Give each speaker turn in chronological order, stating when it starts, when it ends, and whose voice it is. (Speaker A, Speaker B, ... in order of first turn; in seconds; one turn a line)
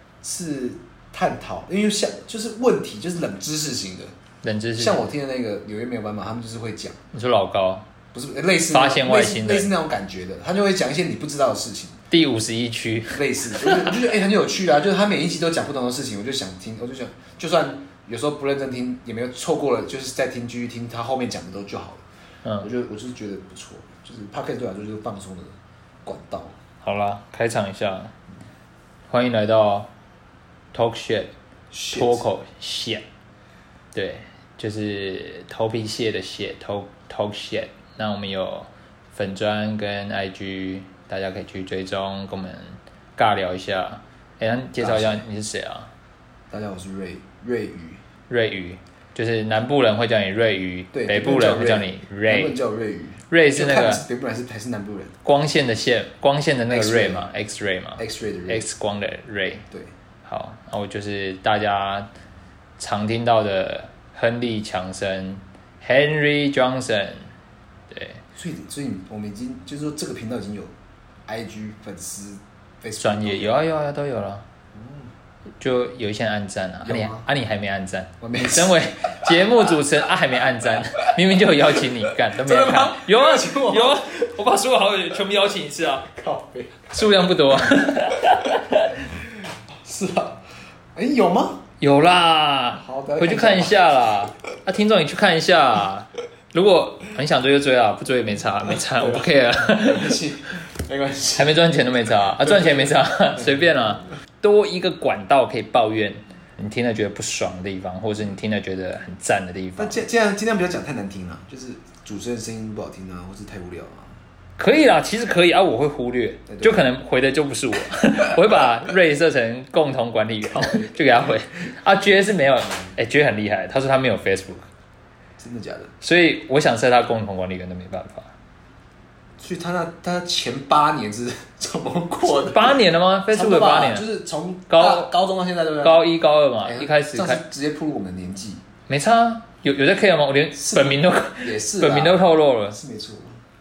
Speaker A: 0.2-4.1
Speaker B: 4.4-5.0
Speaker A: 4.8-7.0
Speaker B: 7.1-7.8
Speaker A: 8.1-12.0
Speaker B: 8.7-9.7
Speaker B: 12.1-13.9
Speaker A: 13.1-22.0
Speaker A: 22.6-26.5
Speaker B: 26.8-28.1
Speaker B: 29.1-29.9
Speaker B: 30.7-31.3
Speaker A: 31.7-32.2
Speaker B: 31.9-33.0
Speaker B: 33.9-45.9
Speaker A: 44.8-45.2
Speaker A: 46.5-48.0
Speaker B: 48.3-52.6
Speaker A: 50.9-55.1
Speaker B: 53.3-54.0
Speaker B: 55.2-59.6
Speaker A: 56.7-57.3
Speaker A: 58.0-58.6
Speaker B: 60.2-62.1
Speaker B: 62.8-67.3
Speaker B: 67.9-68.2
Speaker A: 68.3-70.7
Speaker A: 71.2-73.5
Speaker B: 73.0-74.4
Speaker A: 74.7-75.1
Speaker B: 75.6-86.1
Speaker A: 76.8-77.2
Speaker A: 78.2-79.3
Speaker A: 82.2-84.3
Speaker A: 86.0-86.9
Speaker B: 86.9-89.0
Speaker A: 89.0-90.4
Speaker A: 90.9-91.6
Speaker B: 91.8-100.2
Speaker A: 92.8-93.8
Speaker A: 98.9-101.6
Speaker B: 101.4-110.0
Speaker A: 102.5-102.8
Speaker A: 109.8-114.2
Speaker B: 114.6-124.6
Speaker A: 116.5-116.8
Speaker A: 120.5-121.0
Speaker A: 125.4-125.9
Speaker B: 126.0-128.3
Speaker A: 129.4-136.0
Speaker B: 132.3-134.1
Speaker B: 134.7-135.1
Speaker B: 135.8-137.4
Speaker A: 136.6-138.6
Speaker B: 138.9-142.8
Speaker A: 140.6-143.4